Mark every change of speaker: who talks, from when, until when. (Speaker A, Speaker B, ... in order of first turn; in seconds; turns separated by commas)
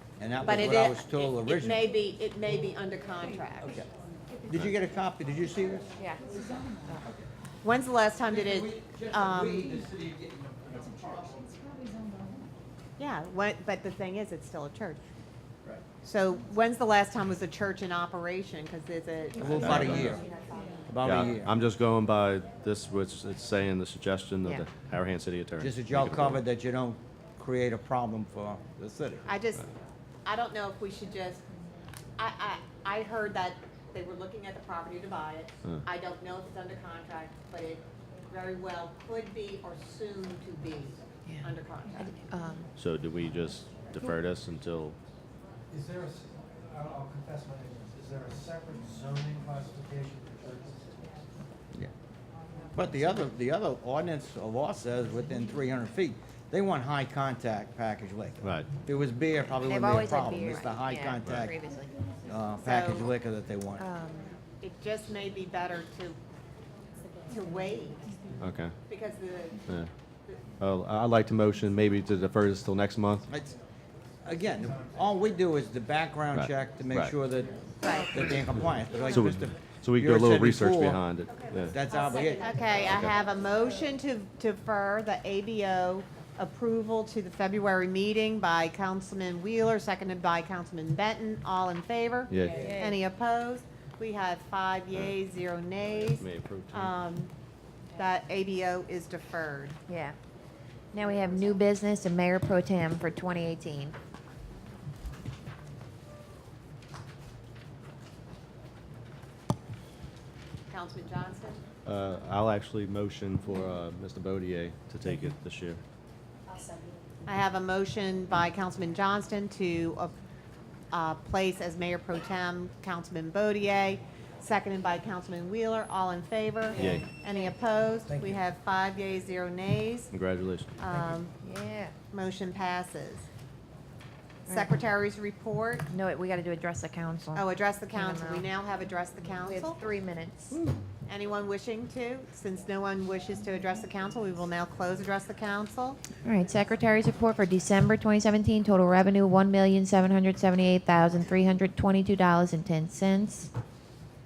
Speaker A: 0.2-1.9, Speaker B: 0.4-3.9, Speaker A: 4.5-5.9, Speaker C: 6.0-7.0, Speaker B: 7.6-9.8, Speaker A: 8.3-11.6, Speaker B: 13.0-15.0, Speaker B: 16.0-20.6, Speaker A: 19.4-20.2, Speaker D: 19.6-20.1, Speaker A: 20.9-21.5, Speaker D: 21.0-26.4, Speaker A: 25.6-29.2, Speaker B: 29.2-29.7, Speaker B: 30.2-31.4, Speaker B: 32.2-42.1, Speaker C: 42.0-42.7, Speaker D: 42.8-45.0, Speaker E: 45.7-51.2, Speaker A: 52.7-61.5, Speaker D: 58.4-58.7, Speaker C: 59.6-61.9, Speaker A: 62.3-63.9, Speaker B: 62.6-63.1, Speaker C: 63.8-64.3, Speaker B: 64.6-66.2, Speaker B: 67.2-68.1, Speaker D: 68.4-68.7, Speaker B: 68.9-69.6, Speaker D: 70.6-73.3, Speaker A: 73.3-73.5, Speaker A: 74.2-81.0, Speaker D: 76.3-77.1, Speaker B: 77.8-78.4, Speaker D: 79.1-81.8, Speaker A: 81.6-82.7, Speaker B: 82.1-97.3, Speaker D: 82.8-83.1, Speaker D: 92.3-92.7, Speaker C: 92.6-93.0, Speaker D: 95.8-96.9, Speaker B: 98.0-99.8, Speaker C: 99.9-100.2, Speaker C: 100.9-104.0, Speaker B: 110.7-111.6, Speaker D: 111.8-115.8, Speaker B: 117.2-120.1, Speaker B: 120.9-130.1, Speaker D: 126.8-127.0, Speaker A: 128.1-128.3, Speaker D: 130.1-130.7, Speaker B: 130.8-131.3, Speaker C: 131.4-131.9, Speaker B: 132.1-133.3, Speaker C: 134.5-134.8, Speaker B: 134.5-135.9, Speaker C: 135.9-138.5, Speaker B: 137.3-139.8, Speaker C: 139.4-140.6, Speaker B: 141.1-146.0, Speaker C: 146.2-153.5